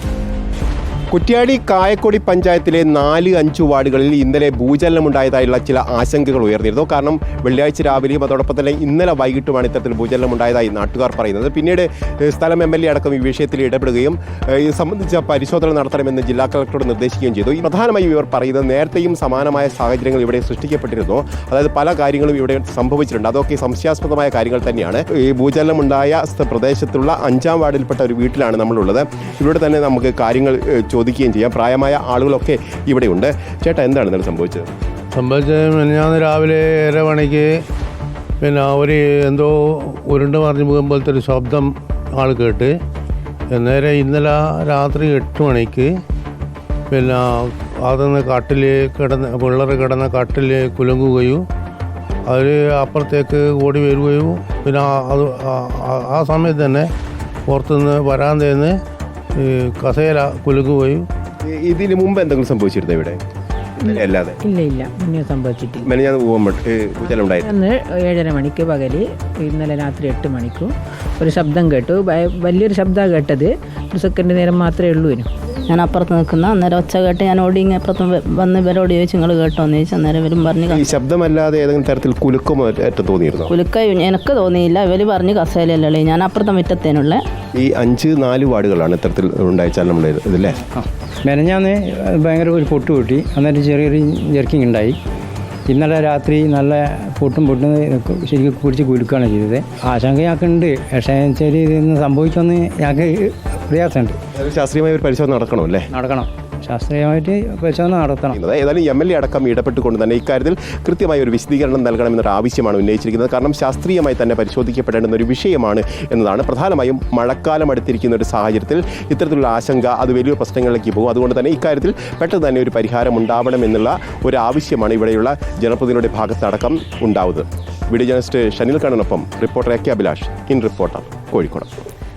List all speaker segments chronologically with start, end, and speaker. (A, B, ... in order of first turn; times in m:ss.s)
0:01.1-0:34.7 A
0:35.1-0:37.6 B
0:38.4-0:42.8 B
0:43.5-0:45.9 B
0:46.9-0:51.4 B
0:52.3-0:56.9 B
0:57.5-0:58.8 B
0:59.4-1:01.1 B
1:01.4-1:03.2 A
1:03.8-1:04.4 A
1:03.9-1:05.9 C
1:05.8-1:07.5 A
1:07.4-1:15.3 C
1:15.7-1:20.8 D
1:20.7-1:23.5 A
1:23.5-1:27.2 D
1:27.6-1:30.6 A
1:30.7-1:35.0 E
1:35.7-1:44.2 E
1:44.3-1:45.9 A
1:45.9-1:48.4 E
1:48.3-2:11.7 A